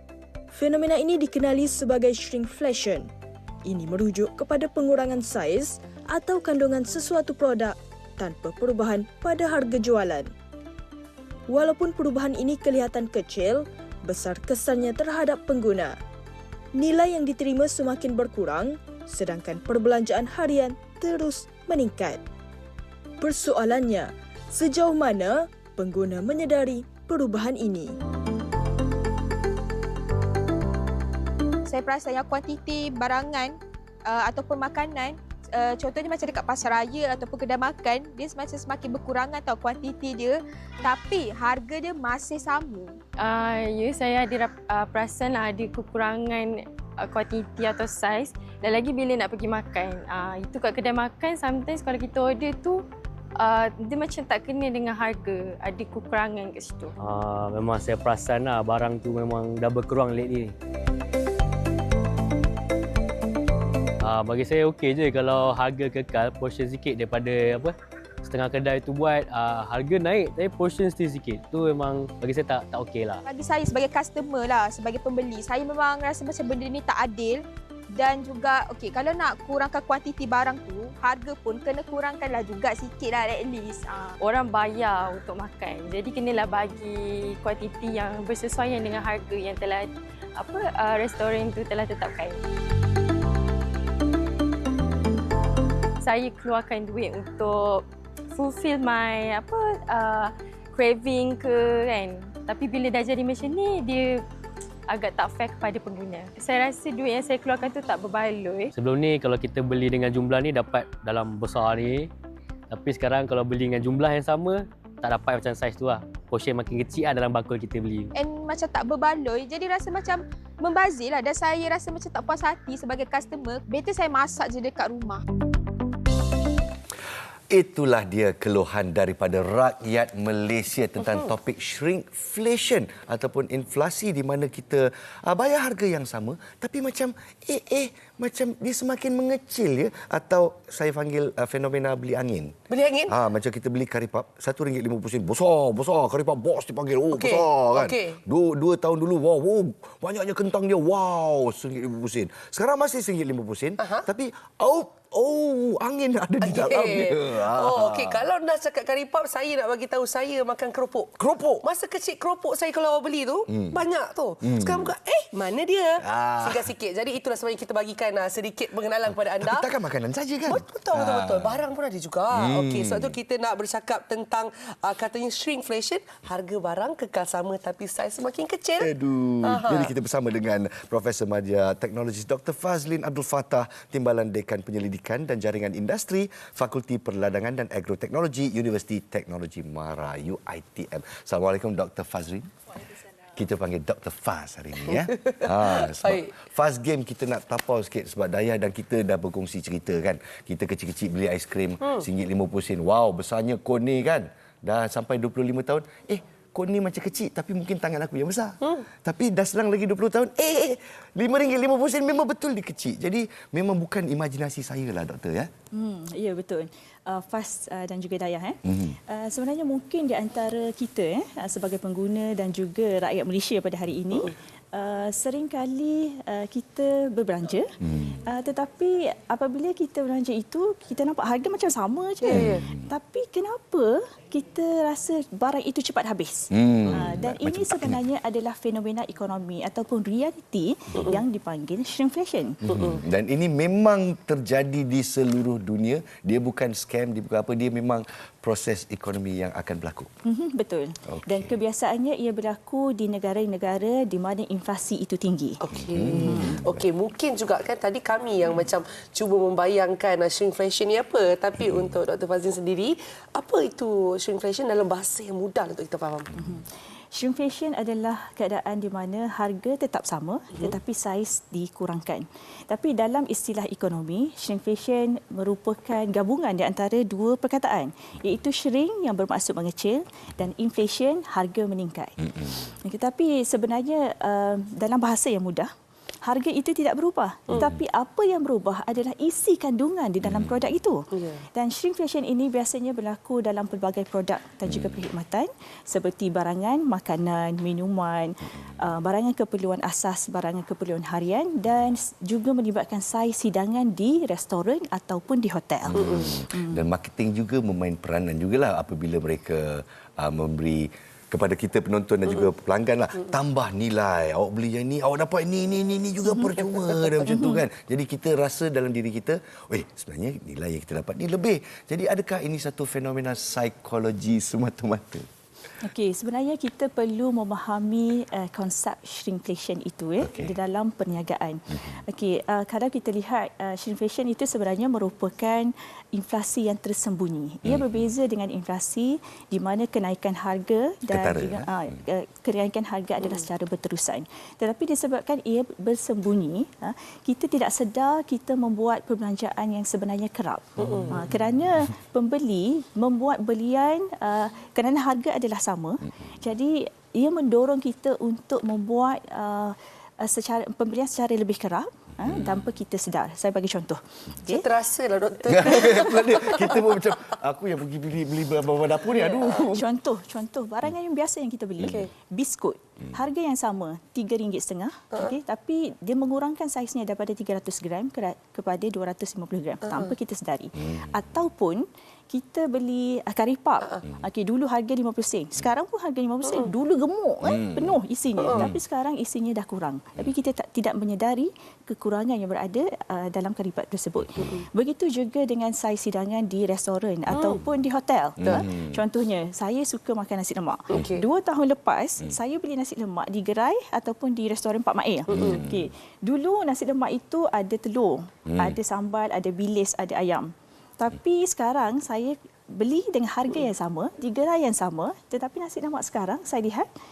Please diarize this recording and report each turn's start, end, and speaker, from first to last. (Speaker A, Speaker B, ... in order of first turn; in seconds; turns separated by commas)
Speaker A: 0.5-3.1, Speaker A: 3.6-10.3, Speaker A: 11.5-15.9, Speaker A: 16.8-22.2, Speaker A: 23.2-27.9, Speaker B: 31.7-43.0, Speaker C: 43.2-52.8, Speaker C: 53.4-56.9, Speaker D: 57.0-60.5, Speaker D: 64.0-73.2, Speaker B: 73.2-77.4, Speaker B: 77.9-84.1, Speaker C: 84.2-92.4, Speaker C: 96.0-104.2, Speaker C: 104.9-108.7, Speaker D: 108.8-112.1, Speaker D: 112.7-118.1, Speaker B: 118.1-125.2, Speaker E: 127.5-142.5, Speaker F: 131.0-131.3, Speaker F: 142.7-143.1, Speaker E: 143.1-158.2, Speaker F: 147.1-148.2, Speaker F: 153.8-154.1, Speaker F: 156.4-169.7, Speaker E: 161.2-161.6, Speaker E: 163.5-163.8, Speaker E: 164.4-164.9, Speaker E: 166.0-166.7, Speaker E: 169.4-171.6, Speaker F: 170.5-179.9, Speaker E: 172.3-173.1, Speaker E: 178.8-192.5, Speaker E: 193.3-215.5, Speaker F: 194.8-196.3, Speaker G: 215.7-242.6, Speaker E: 218.6-218.9, Speaker E: 227.8-228.2, Speaker F: 232.2-232.6, Speaker E: 232.3-232.8, Speaker E: 236.5-238.0, Speaker E: 242.6-250.1, Speaker F: 242.7-243.0, Speaker G: 250.2-255.6, Speaker E: 251.1-251.5, Speaker F: 255.6-266.3, Speaker E: 255.8-256.8, Speaker G: 266.4-285.7, Speaker G: 286.2-306.8, Speaker E: 290.2-290.5, Speaker F: 291.1-291.4, Speaker E: 294.7-295.0, Speaker E: 305.9-325.3, Speaker F: 305.9-306.4, Speaker G: 317.3-317.6, Speaker G: 325.8-364.6, Speaker E: 330.2-330.6, Speaker E: 337.6-338.0, Speaker E: 341.1-341.7, Speaker F: 350.8-351.2, Speaker E: 362.2-362.6, Speaker F: 364.5-366.9, Speaker E: 365.5-369.8, Speaker F: 369.2-369.6, Speaker G: 369.5-416.9, Speaker F: 371.8-372.1, Speaker E: 387.4-388.8, Speaker F: 388.4-388.7, Speaker F: 394.4-394.7, Speaker F: 397.3-397.6, Speaker E: 398.4-399.0, Speaker F: 400.9-401.2, Speaker F: 405.3-405.6, Speaker E: 405.3-405.9, Speaker E: 408.5-408.8